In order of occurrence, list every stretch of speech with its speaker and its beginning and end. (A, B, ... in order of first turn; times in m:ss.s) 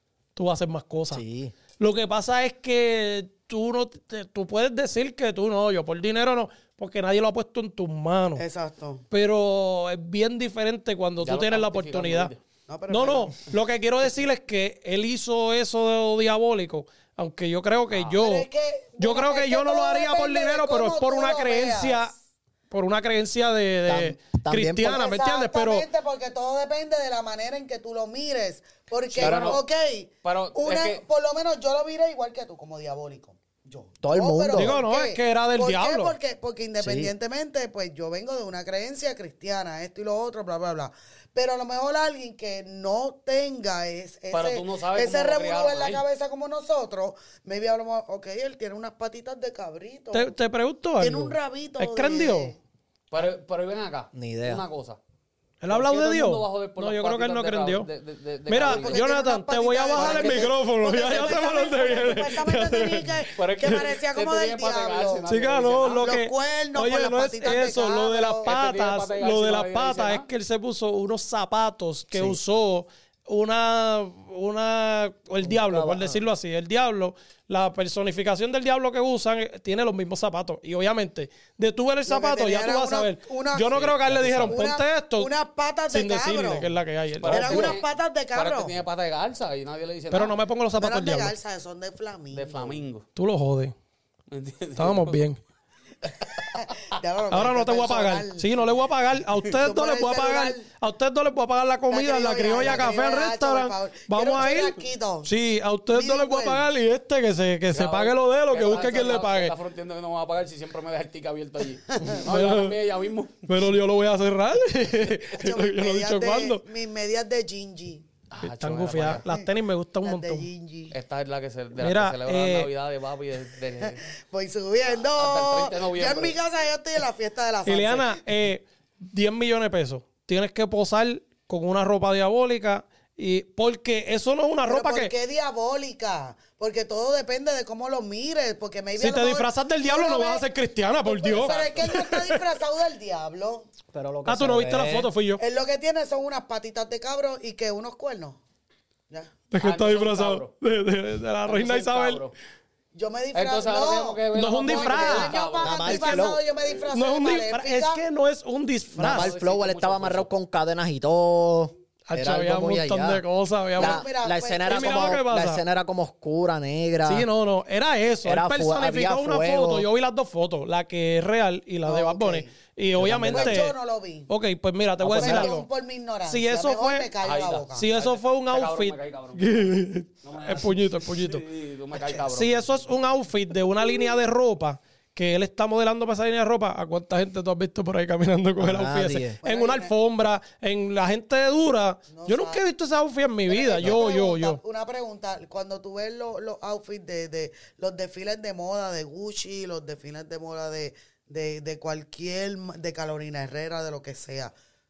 0:00.3-0:01.2 A
0:01.1-0:01.5 B
0:01.8-0:08.4 A
0:08.4-0:09.0 C
0:09.1-0:12.3 A
0:11.2-0:12.4 D
0:12.7-0:13.4 C
0:12.9-0:18.5 A
0:18.2-0:22.1 C
0:19.0-0:22.1 A
0:22.7-0:25.8 A
0:23.9-0:25.0 B
0:24.8-0:50.3 C
0:29.1-0:29.6 D
0:29.1-0:29.6 B
0:30.2-0:31.0 D
0:34.0-0:34.8 B
0:34.5-0:36.2 A
0:36.8-0:37.1 B
0:44.3-0:46.0 D
0:50.1-0:52.5 A
0:51.0-0:52.6 C
0:53.1-0:55.0 D
0:54.1-0:54.6 B
0:55.6-0:57.9 A
0:55.7-0:59.0 D
0:58.5-1:03.2 A
0:58.6-1:05.3 C
0:59.9-1:00.5 D
1:01.1-1:01.5 D
1:03.3-1:06.1 D
1:05.3-1:25.3 A
1:05.9-1:08.5 C
1:08.4-1:10.2 D
1:12.1-1:12.4 B
1:15.4-1:16.2 B
1:22.1-1:23.8 C
1:23.7-1:24.6 D
1:24.5-1:26.7 C
1:25.9-1:27.8 A
1:27.2-1:30.4 D
1:27.3-1:28.8 C
1:30.1-1:31.3 A
1:30.7-1:32.8 C
1:32.3-1:33.0 D
1:33.1-1:33.7 A
1:34.3-1:35.2 D
1:34.8-1:35.4 A
1:36.2-1:36.9 D
1:36.5-1:38.5 C
1:37.3-1:49.5 A
1:39.5-1:40.6 C
1:41.9-1:45.3 C
1:45.9-1:46.6 C
1:47.7-1:53.5 D
1:51.9-1:52.2 C
1:52.1-1:52.7 A
1:53.4-1:56.6 A
1:55.0-1:58.0 C
1:58.3-1:59.2 D
1:58.4-2:00.5 A
2:00.0-2:00.9 C
2:00.9-2:04.0 D
2:01.8-2:02.7 A
2:03.8-2:08.2 C
2:04.8-2:06.4 D
2:07.6-2:15.1 A
2:14.7-2:20.4 C
2:19.0-2:22.4 A
2:21.0-2:23.7 C
2:21.3-2:22.0 D
2:23.9-2:25.1 B
2:24.2-2:25.4 A
2:25.4-2:28.4 C
2:29.5-2:32.2 A
2:29.6-2:30.5 D
2:31.4-2:32.3 D
2:32.9-2:38.0 C
2:33.3-2:36.0 D
2:34.3-2:36.3 A
2:35.6-2:36.4 B
2:36.9-2:39.3 A
2:39.0-2:43.2 B
2:39.0-2:40.3 D
2:42.1-2:44.0 A
2:43.8-2:45.2 C
2:43.8-2:47.3 B
2:44.6-2:45.6 A
2:47.0-2:53.7 A
2:48.2-2:49.9 B
2:51.8-2:52.5 C
2:53.0-2:53.7 B
2:53.2-2:54.3 C
2:54.3-2:55.7 A
2:55.0-2:55.5 B
2:55.1-2:57.9 C
2:56.2-2:57.1 A
2:57.2-3:02.6 D
2:57.7-3:01.4 A
3:01.9-3:02.2 C
3:02.3-3:14.6 A
3:08.6-3:09.4 B
3:09.4-3:09.9 C
3:12.1-3:12.6 C
3:13.5-3:24.5 C